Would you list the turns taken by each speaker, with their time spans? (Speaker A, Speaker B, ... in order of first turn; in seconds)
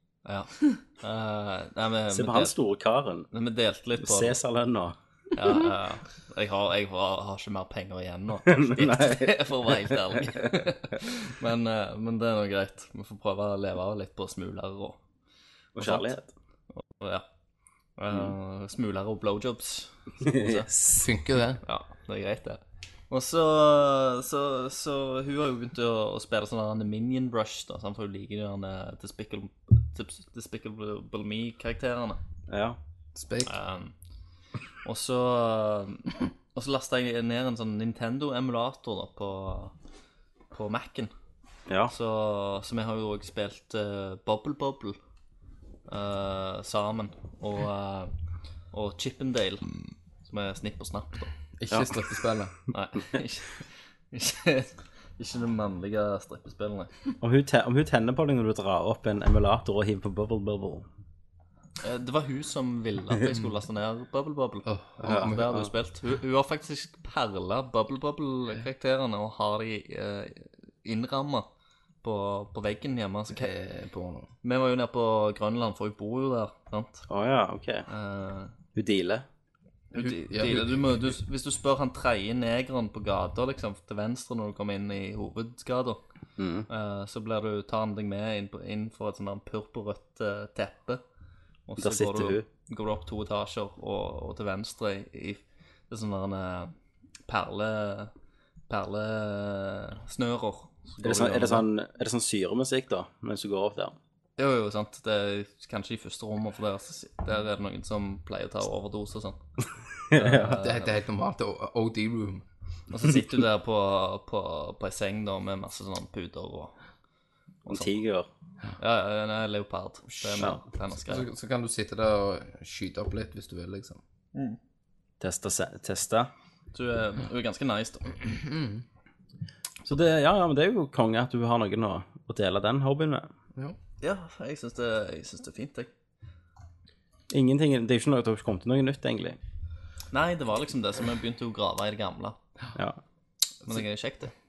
Speaker A: 0.2-2.5, 3.3-4.4, 5.3-15.0, 15.8-16.1, 16.7-17.2, 18.0-20.7, 21.6-32.2, 33.5-33.9, 34.8-39.7, 40.5-41.1, 41.9-45.0, 45.9-48.1, 48.7-49.7, 50.2-51.3, 52.7-56.9, 61.8-71.5, 72.0-73.5, 74.4-77.0, 77.9-78.5, 79.9-86.0, 86.7-91.0, 91.7-96.7, 97.3-98.1, 98.7-101.7, 104.4-109.4, 110.1-110.9, 112.9-116.7, 118.8-121.3, 126.7-128.2, 134.0-135.9, 140.1-142.4, 143.7-144.3
Speaker B: 2.1-3.3, 4.0-5.0, 8.4-10.7, 15.7-16.3, 20.2-21.0, 32.5-32.8, 41.7-41.9, 57.2-60.9, 65.0-65.3, 77.1-77.9, 78.7-79.2, 86.4-86.7, 91.8-92.5, 101.0-104.0, 110.1-110.6, 117.7-118.3, 125.2-126.3, 129.8-133.3, 137.3-139.4
Speaker C: 21.0-21.6, 33.1-33.5, 51.6-52.5, 64.7-65.7, 73.3-74.3, 79.9-81.1, 110.6-112.4, 120.2-120.5, 121.0-124.0, 128.2-128.8